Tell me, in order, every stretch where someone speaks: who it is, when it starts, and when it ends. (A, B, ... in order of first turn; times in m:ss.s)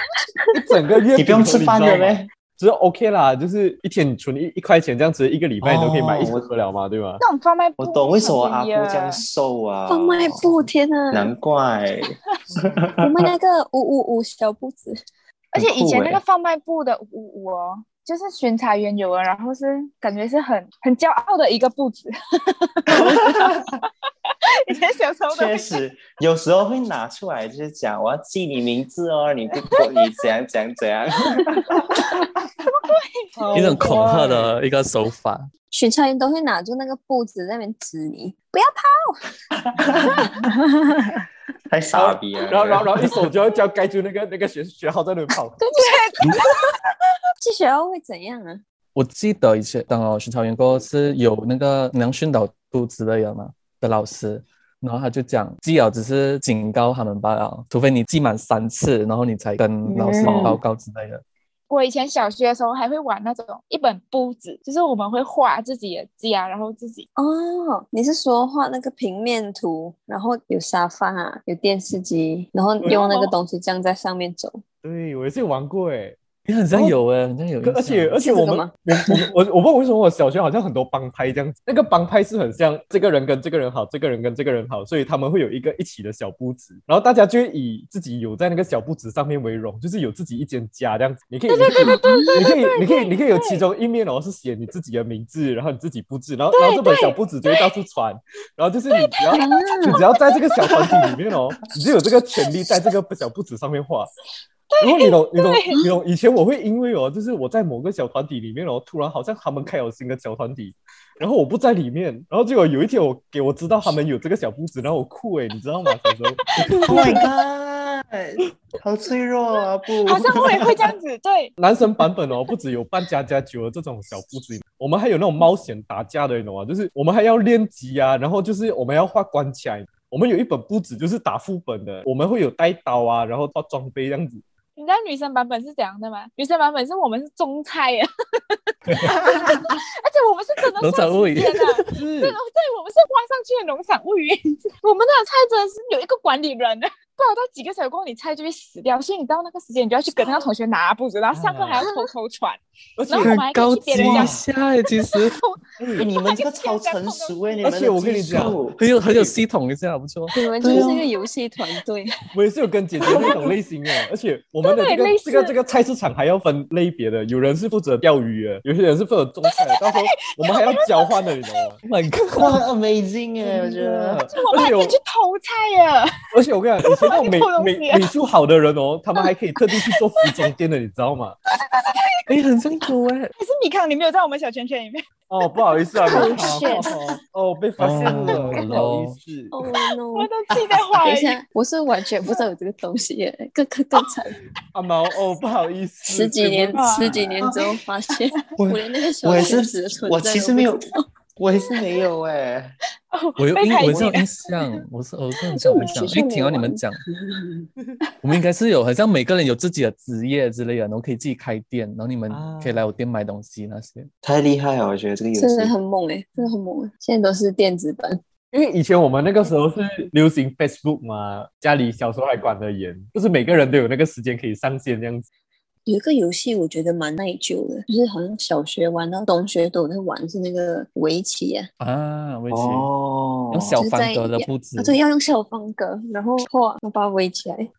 0:00.5-0:07.2 A
0:01.2-0:02.3 B
0:05.6-0:06.5 B
0:07.2-0:09.2 C
0:07.8-0:13.3 B
0:09.9-0:11.3 D
0:13.0-0:15.0 D
0:15.5-0:16.2 B
0:15.5-0:25.8 C
0:22.9-0:23.7 B
0:25.3-0:32.2 B
0:29.7-0:30.2 C
0:31.3-0:33.9 C
0:33.4-0:34.6 A
0:33.5-0:35.5 E
0:35.7-0:39.2 D
0:39.7-0:40.2 B
0:41.7-0:43.2 B
0:41.9-0:45.6 A
0:45.6-0:46.9 C
0:47.4-0:48.6 D
0:48.9-1:01.2 E
0:59.9-1:00.6 D
1:00.3-1:00.5 B
1:01.7-1:07.0 C
1:07.2-1:14.6 D
1:12.8-1:13.3 C
1:14.8-1:16.2 A
1:16.4-1:18.2 E
1:17.6-1:44.1 A
1:18.2-1:19.2 D
1:31.5-1:33.6 C
1:31.8-1:32.4 D
1:36.5-1:37.7 C
1:38.9-1:41.0 C
1:39.3-1:40.0 D
1:44.7-1:45.8 C
1:44.8-1:57.2 A
1:56.0-1:57.2 C
1:56.9-2:00.9 B
2:00.0-2:01.5 C
2:01.6-2:14.4 A
2:14.8-2:34.4 C
2:18.9-2:19.7 E
2:20.8-2:21.9 E
2:21.9-2:22.4 A
2:31.3-2:31.9 A
2:33.0-2:33.4 A
2:33.2-2:35.4 E
2:33.9-2:34.4 B
2:35.1-2:37.7 C
2:35.8-2:36.1 A
2:36.0-2:38.8 B
2:37.6-2:38.6 A
2:38.8-2:40.3 E
2:40.3-2:42.1 D
2:40.6-2:41.0 B
2:42.3-2:51.8 A
2:44.6-2:45.6 C
2:49.5-2:51.7 C
2:51.8-2:52.6 E
2:52.4-2:54.2 B
2:53.5-2:55.0 A
2:54.3-2:56.1 C
2:56.3-3:01.4 A
2:56.9-2:58.1 C
2:59.7-3:00.5 C
3:01.5-3:02.3 C
3:02.3-3:03.3 E
3:03.4-3:07.0 C
3:05.3-3:09.5 A
3:06.1-3:06.9 D
3:07.8-3:09.2 E
3:09.5-3:10.3 D
3:10.1-3:11.4 C
3:11.0-3:14.4 D
3:14.7-3:17.4 A
3:16.1-3:21.0 D
3:16.8-3:17.2 C
3:18.6-3:20.9 B
3:21.4-3:22.7 B
3:23.1-3:24.8 C
3:23.4-3:27.0 E
3:23.9-3:24.1 B
3:25.6-3:27.7 D
3:25.7-3:26.0 C
3:28.0-3:28.3 C
3:28.2-3:34.1 E
3:32.3-3:32.9 A
3:34.2-3:35.7 B
3:35.4-3:38.2 D
3:38.5-3:45.3 A
3:45.9-3:51.7 D
3:51.8-3:52.9 E
3:52.5-3:53.8 B
3:53.5-3:55.0 E
3:53.8-3:57.7 D